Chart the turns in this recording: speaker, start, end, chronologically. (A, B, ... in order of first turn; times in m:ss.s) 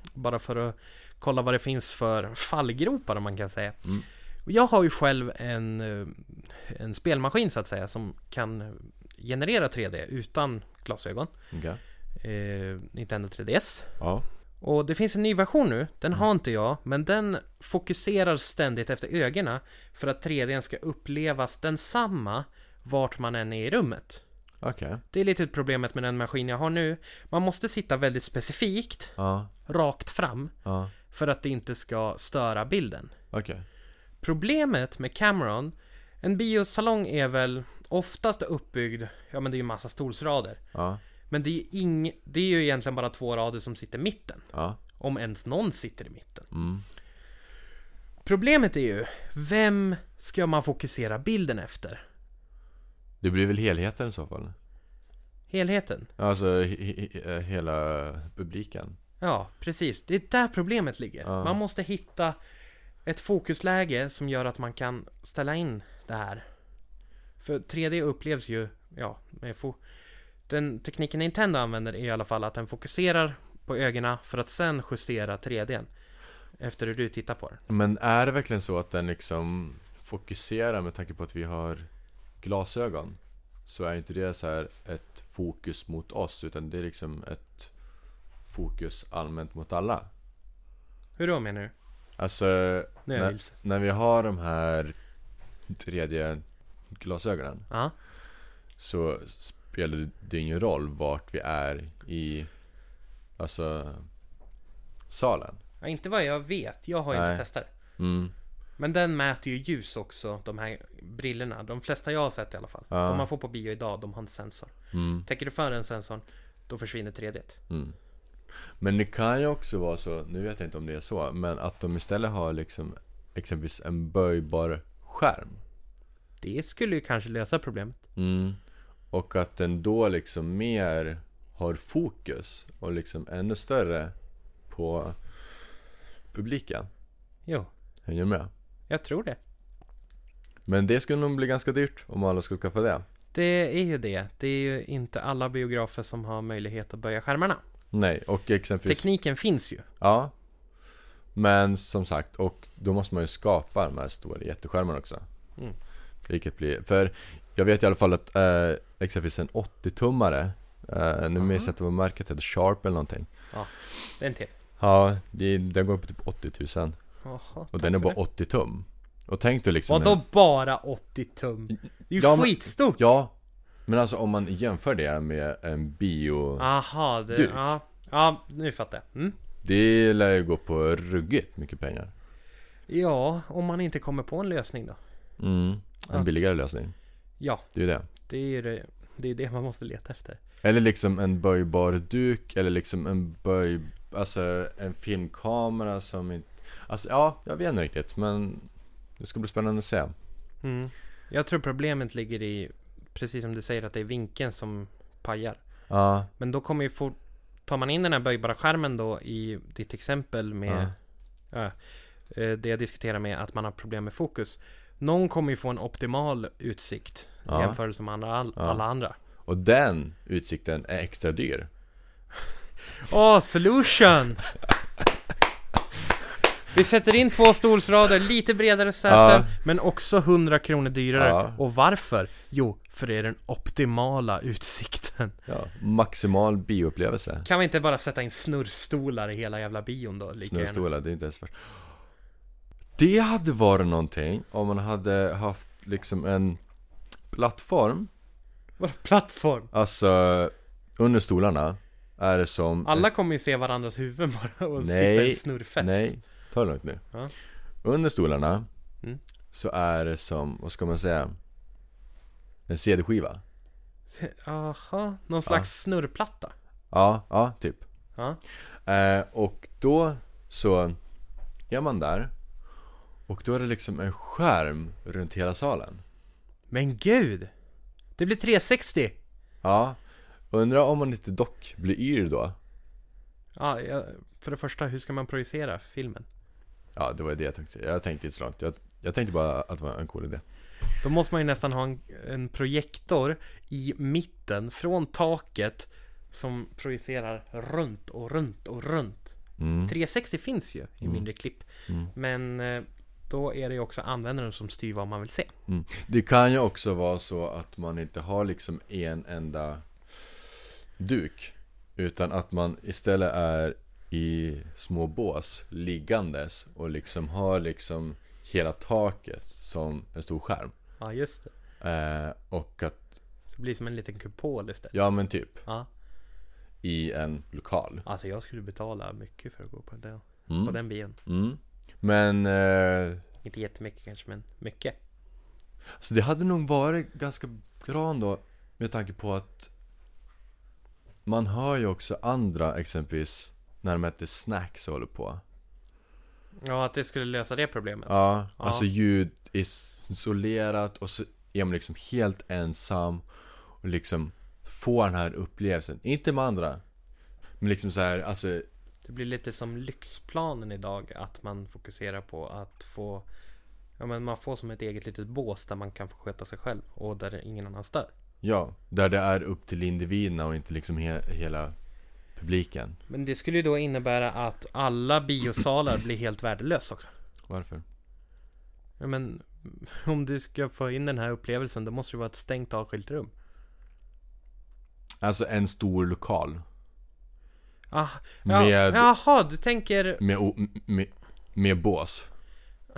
0:00.2-0:03.8 A
0:04.5-0:11.3 A
0:11.5-0:11.8 B
0:12.2-0:14.0 A
0:14.0-0:14.2 B
0:14.6-0:24.2 A
0:24.6-0:25.0 B
0:25.1-0:30.5 A
0:29.2-0:29.5 B
0:30.6-0:30.9 B
0:31.1-0:33.1 A
0:33.3-0:33.6 B
0:34.2-0:40.6 A
0:40.7-0:41.0 B
0:41.3-0:44.5 A
0:44.5-0:44.8 B
0:45.0-0:46.5 A
0:46.5-0:46.8 B
0:48.2-0:52.0 A
0:53.2-0:54.6 B
0:55.5-0:56.1 A
0:56.2-0:59.0 B
0:59.2-1:02.4 A
1:01.2-1:01.6 B
1:03.0-1:06.4 A
1:07.4-1:09.8 A
1:10.5-1:15.9 A
1:16.6-1:17.6 A
1:17.7-1:21.9 B
1:22.4-1:27.7 B
1:28.5-1:30.1 B
1:31.2-1:31.7 A
1:32.2-1:35.0 B
1:33.1-1:33.5 A
1:35.7-1:37.7 B
1:38.8-1:42.5 B
1:43.4-1:44.1 B
1:45.1-1:45.6 B
1:45.8-1:47.7 A
1:47.1-1:47.4 B
1:48.0-1:48.3 B
1:48.8-1:57.6 A
1:52.9-1:53.3 B
1:54.9-1:55.3 B
1:57.7-1:58.0 B
1:58.8-2:05.6 B
2:06.4-2:08.0 A
2:08.2-2:08.6 B
2:09.1-2:14.1 B
2:14.7-2:15.4 B
2:16.3-2:16.9 B
2:18.1-2:18.5 B
2:18.9-2:19.4 A
2:20.7-2:23.0 B
2:23.3-2:27.6 A
2:27.9-2:29.0 B
2:28.9-2:29.9 A
2:30.0-2:30.3 B
2:31.4-2:35.2 B
2:36.3-2:43.3 B
2:41.4-2:41.7 A
2:43.5-2:44.5 A
2:44.8-2:47.0 B
2:47.2-2:48.2 A
2:47.7-2:50.2 B
2:49.9-2:53.0 A
2:52.2-2:53.3 B
2:53.9-2:56.7 B
2:56.6-2:59.4 A
2:57.3-2:57.7 B
2:59.6-3:02.1 B
3:02.9-3:05.0 A
3:05.4-3:06.9 B
3:07.4-3:07.7 A
3:07.7-3:08.1 B
3:08.3-3:10.4 A
3:10.6-3:20.1 B
3:20.6-3:25.6 A
3:25.9-3:26.3 B
3:26.4-3:31.0 A
3:30.7-3:30.9 B
3:32.3-3:39.2 A
3:37.5-3:37.8 B
3:38.6-3:38.8 B
3:39.4-3:41.7 B
3:42.9-3:44.5 A
3:46.7-3:55.4 A
3:49.1-3:49.5 B
3:51.1-3:51.6 B
3:55.5-3:57.5 B
3:57.4-4:00.8 A
4:00.4-4:01.9 B
4:03.0-4:06.6 B
4:07.3-4:08.1 B
4:08.8-4:09.7 A
4:09.7-4:13.1 B
4:12.8-4:16.1 A
4:14.8-4:17.0 B
4:17.8-4:18.7 B
4:19.5-4:21.4 B
4:22.7-4:23.4 B
4:24.1-4:26.5 A
4:26.9-4:27.8 B
4:28.9-4:31.0 B
4:31.7-4:32.3 B
4:33.3-4:36.0 B
4:36.7-4:37.5 A
4:38.2-4:39.2 A
4:39.6-4:40.0 B
4:40.5-4:42.6 B
4:43.6-4:46.3 A
4:47.0-4:50.4 B
4:51.0-5:05.5 A
4:59.6-4:59.9 B
5:05.7-5:10.4 B
5:11.0-5:20.7 B
5:21.0-5:21.5 A
5:21.8-5:23.0 B
5:23.5-5:25.0 A
5:24.9-5:25.6 B
5:26.8-5:28.0 B
5:28.1-5:31.2 A
5:30.5-5:33.2 B
5:33.4-5:35.0 A
5:36.0-5:39.7 B
5:41.3-5:45.4 B
5:46.6-5:48.9 A
5:48.1-5:53.2 B
5:53.8-5:56.8 B
5:57.6-5:58.7 B
5:59.0-6:03.3 A
6:04.0-6:08.1 A
6:08.4-6:11.8 B
6:12.4-6:13.0 B
6:13.1-6:17.1 A
6:17.5-6:17.8 B
6:19.0-6:23.3 A
6:25.2-6:26.6 B
6:27.9-6:30.2 A
6:28.4-6:29.1 B
6:30.2-6:32.3 B